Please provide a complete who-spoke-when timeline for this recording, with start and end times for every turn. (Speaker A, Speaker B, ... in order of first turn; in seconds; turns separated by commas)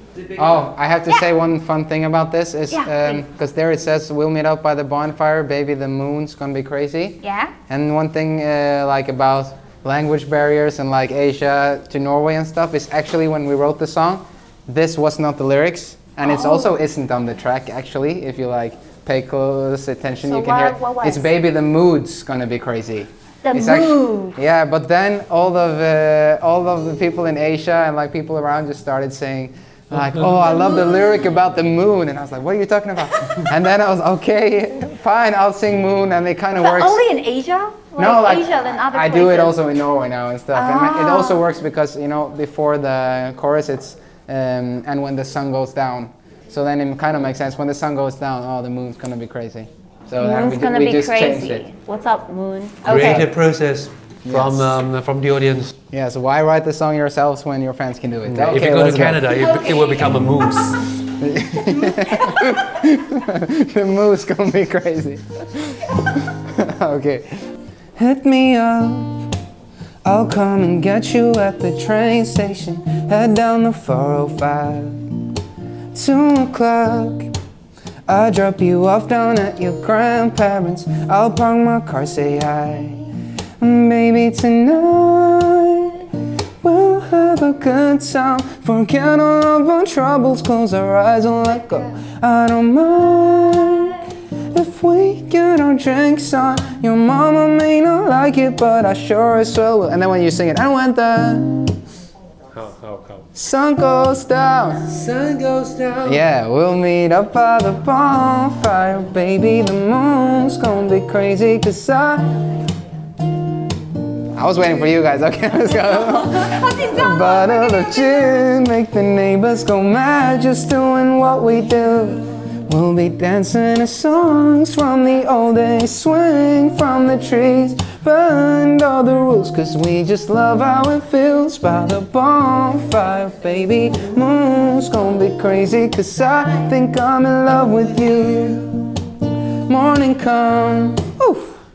Speaker A: 0.3-37.0, Speaker B: 2.7-3.2, Speaker B: 7.2-7.5, Speaker B: 16.2-16.7, Speaker B: 20.2-21.3, Speaker B: 23.4-24.4, Speaker B: 30.5-31.0, Speaker B: 36.6-39.6, Speaker A: 38.0-51.7, Speaker B: 40.5-41.5, Speaker B: 50.2-53.2, Speaker C: 52.9-55.7, Speaker A: 52.9-53.3, Speaker A: 54.3-54.8, Speaker A: 55.9-59.4, Speaker C: 58.3-60.9, Speaker B: 59.3-60.1, Speaker A: 61.2-67.3, Speaker B: 61.8-62.6, Speaker A: 68.0-69.3, Speaker A: 70.0-75.0, Speaker A: 75.9-77.3, Speaker A: 78.1-83.1, Speaker A: 83.6-86.1, Speaker A: 86.6-101.8, Speaker C: 102.5-103.3, Speaker A: 103.3-104.9, Speaker C: 104.9-106.2, Speaker A: 106.0-112.4, Speaker A: 114.3-139.1, Speaker B: 115.9-118.4, Speaker A: 139.7-141.6